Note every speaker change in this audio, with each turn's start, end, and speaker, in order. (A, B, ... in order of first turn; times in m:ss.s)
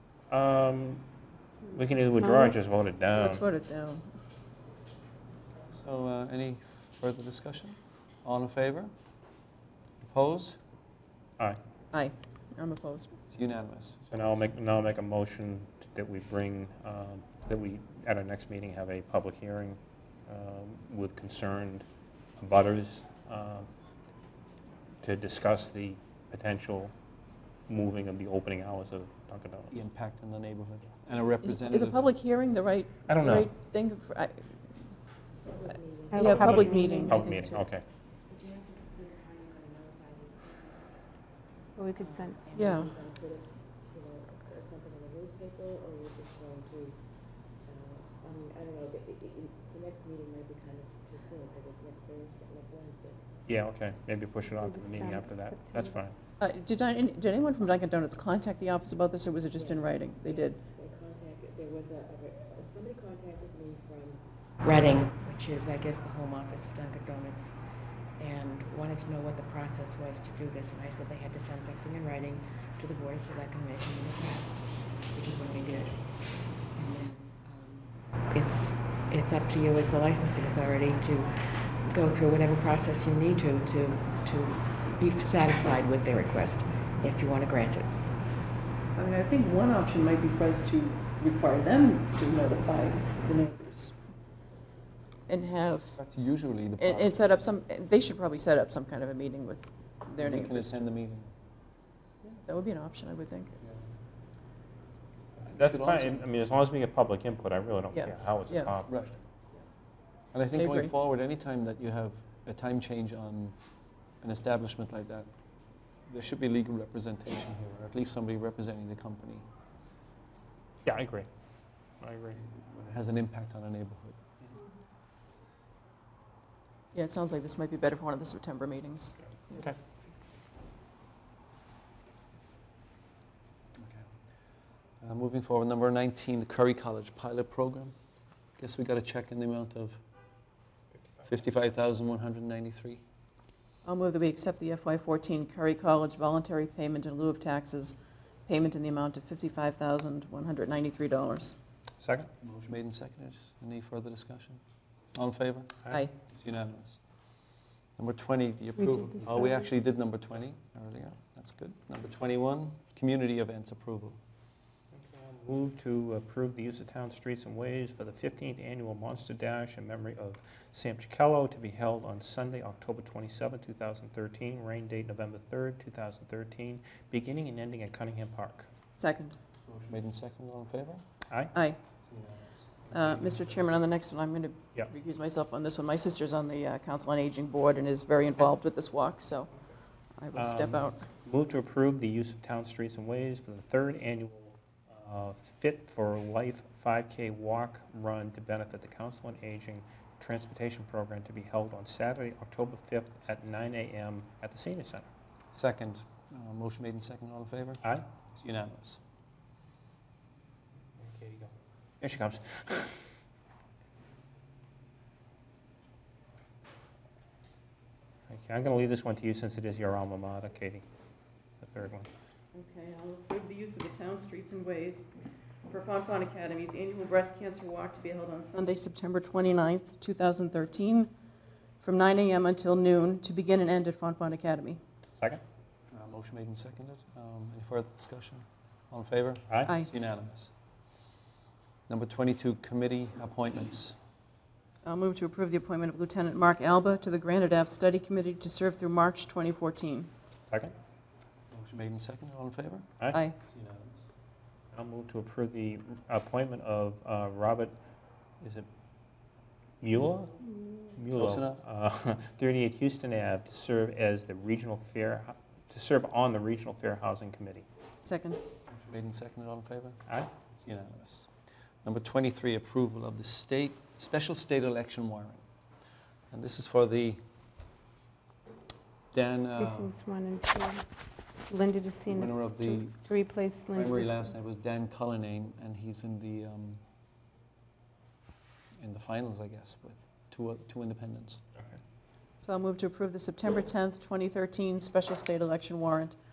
0:00.3-0:01.0 A
0:01.7-0:03.4 A
0:02.2-0:02.5 B
0:03.1-0:04.0 C
0:05.7-0:08.9 D
0:10.0-0:10.6 D
0:11.9-0:13.2 C
0:13.3-0:14.4 D
0:14.1-0:21.8 A
0:22.4-0:23.7 A
0:25.0-0:26.9 A
0:27.7-0:29.8 A
0:29.7-0:32.0 D
0:31.4-0:34.9 C
0:33.1-0:33.5 A
0:35.4-0:37.1 E
0:36.1-0:37.2 B
0:36.1-0:37.6 C
0:37.0-0:37.8 A
0:38.3-0:41.0 E
0:41.8-0:42.4 B
0:42.0-0:47.0 E
0:42.5-0:42.9 C
0:47.5-0:53.3 E
0:53.4-0:56.2 A
0:54.6-0:56.0 B
0:56.4-1:00.6 C
0:59.5-1:07.6 E
1:08.2-1:28.0 E
1:28.9-1:34.0 C
1:35.3-1:36.0 C
1:35.9-1:37.4 D
1:36.8-1:40.8 C
1:40.2-1:41.3 D
1:42.4-1:43.5 C
1:43.6-1:43.9 D
1:45.4-1:46.3 D
1:45.4-1:49.1 A
1:47.9-1:48.8 C
1:48.9-1:49.2 D
1:50.3-1:53.6 D
1:50.5-1:50.9 C
1:54.2-1:55.3 D
1:56.0-1:59.5 D
2:00.8-2:01.3 A
2:02.0-2:02.4 A
2:02.4-2:04.6 D
2:06.9-2:09.6 C
2:09.5-2:09.8 A
2:13.7-2:14.1 D
2:15.0-2:17.9 D
2:18.6-2:20.0 D
2:21.3-2:23.0 D
2:23.8-2:31.6 C
2:32.0-2:32.3 A
2:32.4-2:34.6 D
2:35.1-2:37.0 D
2:38.0-2:44.2 D
2:38.8-2:39.6 B
2:44.9-2:58.7 A
2:59.0-2:59.4 C
2:59.6-3:01.0 D
3:01.3-3:01.5 A
3:01.5-3:01.8 C
3:02.0-3:03.7 D
3:02.9-3:09.5 C
3:10.2-3:11.0 C
3:10.3-3:25.0 A
3:25.5-3:27.8 D
3:28.3-3:29.0 D
3:31.0-3:33.0 A
3:38.3-3:40.8 A
3:41.6-3:42.1 A
3:42.5-3:45.1 C
3:45.7-3:51.1 C
3:51.8-3:54.8 C
3:55.9-4:00.5 D
3:59.5-3:59.7 A
4:01.9-4:04.0 D
4:04.8-4:10.1 C
4:10.5-4:10.7 A
4:11.5-4:12.9 D
4:13.4-4:14.1 D
4:14.7-4:17.7 A
4:18.4-4:18.7 A
4:19.8-4:20.4 A
4:20.9-4:27.6 A
4:21.1-4:21.6 D
4:28.0-4:28.4 C
4:28.7-4:31.3 D
4:31.8-4:35.4 D
4:36.3-4:37.2 D
4:39.1-4:40.0 D
4:39.6-4:40.9 B
4:41.4-4:44.3 B
4:42.0-4:43.1 D
4:43.7-4:46.8 D
4:48.8-4:51.4 D
4:52.4-4:56.2 C